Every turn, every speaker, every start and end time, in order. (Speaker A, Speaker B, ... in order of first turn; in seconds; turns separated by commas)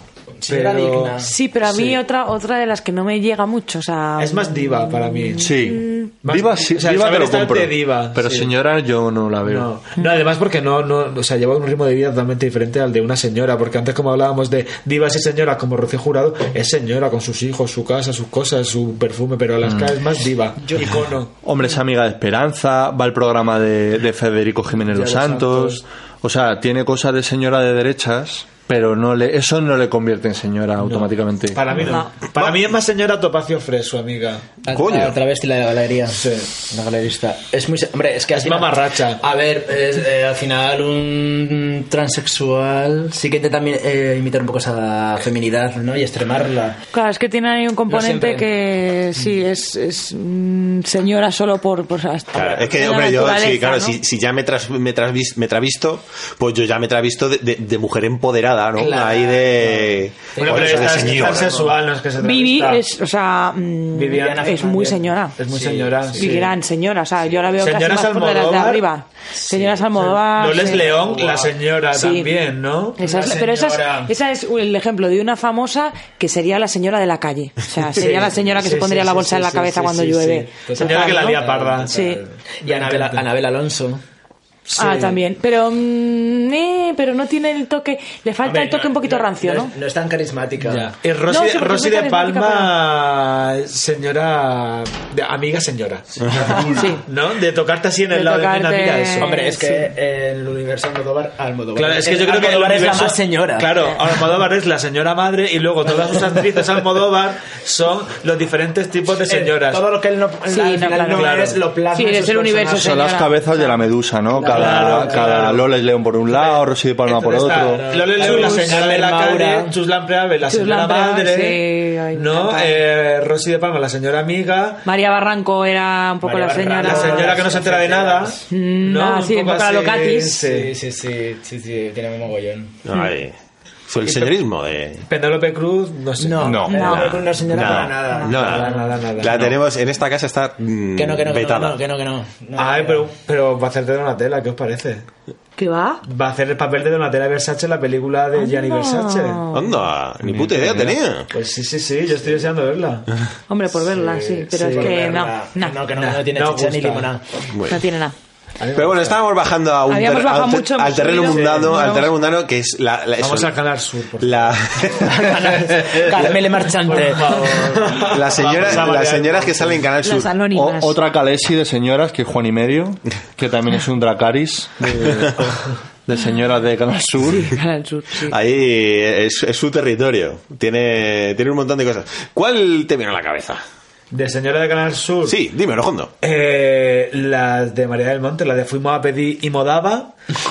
Speaker A: 0.4-1.3, Speaker B: 0.5-1.2, Speaker C: 1.2-6.1, Speaker B: 4.2-5.5, Speaker D: 5.4-9.7, Speaker B: 6.2-8.5, Speaker B: 9.5-21.3, Speaker D: 19.6-19.9, Speaker A: 20.6-21.1, Speaker D: 21.4-31.6, Speaker A: 24.9-25.8, Speaker B: 30.8-34.5, Speaker C: 31.8-32.1, Speaker A: 34.6-46.8, Speaker E: 34.7-35.2, Speaker B: 36.2-36.5, Speaker B: 38.3-39.2, Speaker C: 46.9-54.0, Speaker A: 47.9-48.5, Speaker E: 52.3-61.6, Speaker A: 58.8-61.8, Speaker B: 60.4-62.8, Speaker C: 62.2-65.4, Speaker B: 63.9-64.5, Speaker A: 64.1-66.4, Speaker B: 65.4-66.5, Speaker C: 66.1-70.9, Speaker B: 67.6-68.8, Speaker A: 69.5-69.9, Speaker B: 70.0-73.0, Speaker A: 70.5-71.7, Speaker C: 71.9-72.3, Speaker C: 73.0-81.4, Speaker A: 73.0-74.1, Speaker B: 78.0-79.1, Speaker A: 78.3-84.0, Speaker B: 80.7-83.2, Speaker C: 81.9-82.2, Speaker B: 84.7-85.2, Speaker C: 84.8-89.7, Speaker A: 88.4-91.0, Speaker B: 90.7-99.5, Speaker C: 91.3-92.8, Speaker A: 96.4-96.8, Speaker C: 96.7-97.0, Speaker C: 98.1-99.8, Speaker A: 99.2-103.9, Speaker B: 101.8-109.9, Speaker A: 105.9-106.6, Speaker A: 109.2-113.0, Speaker C: 110.5-113.7, Speaker B: 111.0-111.6, Speaker D: 112.8-117.8, Speaker A: 114.3-115.5, Speaker B: 114.5-115.7, Speaker B: 116.3-121.6, Speaker A: 117.3-119.8, Speaker C: 118.2-118.8, Speaker C: 120.5-122.8, Speaker B: 122.1-124.8, Speaker C: 124.8-127.4, Speaker A: 126.2-128.4, Speaker B: 126.8-130.7, Speaker C: 128.5-130.4, Speaker A: 130.4-132.8, Speaker E: 132.8-133.3, Speaker E: 133.9-135.1, Speaker B: 134.0-134.4, Speaker B: 135.1-137.0, Speaker A: 136.2-139.2, Speaker E: 136.4-141.8, Speaker C: 136.7-137.1, Speaker B: 138.1-139.6, Speaker A: 140.9-143.1, Speaker B: 142.6-145.1, Speaker C: 145.6-146.0, Speaker B: 146.1-149.5, Speaker C: 148.3-149.7, Speaker E: 149.5-151.3, Speaker D: 150.3-150.9, Speaker B: 150.4-153.1, Speaker C: 153.5-155.8, Speaker A: 153.9-157.2, Speaker B: 154.5-155.0, Speaker B: 156.0-157.1, Speaker E: 157.5-157.8, Speaker C: 157.7-158.1, Speaker B: 158.6-159.2, Speaker E: 158.8-163.6, Speaker C: 159.9-162.1, Speaker B: 161.1-161.9, Speaker B: 163.2-164.6, Speaker E: 164.2-165.5, Speaker A: 165.0-168.1, Speaker B: 166.0-169.9, Speaker E: 168.1-170.3, Speaker C: 170.0-171.0, Speaker D: 170.5-175.5, Speaker D: 176.1-177.5, Speaker C: 177.3-178.3, Speaker E: 178.3-183.6, Speaker B: 184.1-185.4, Speaker E: 185.3-186.1, Speaker B: 186.2-190.1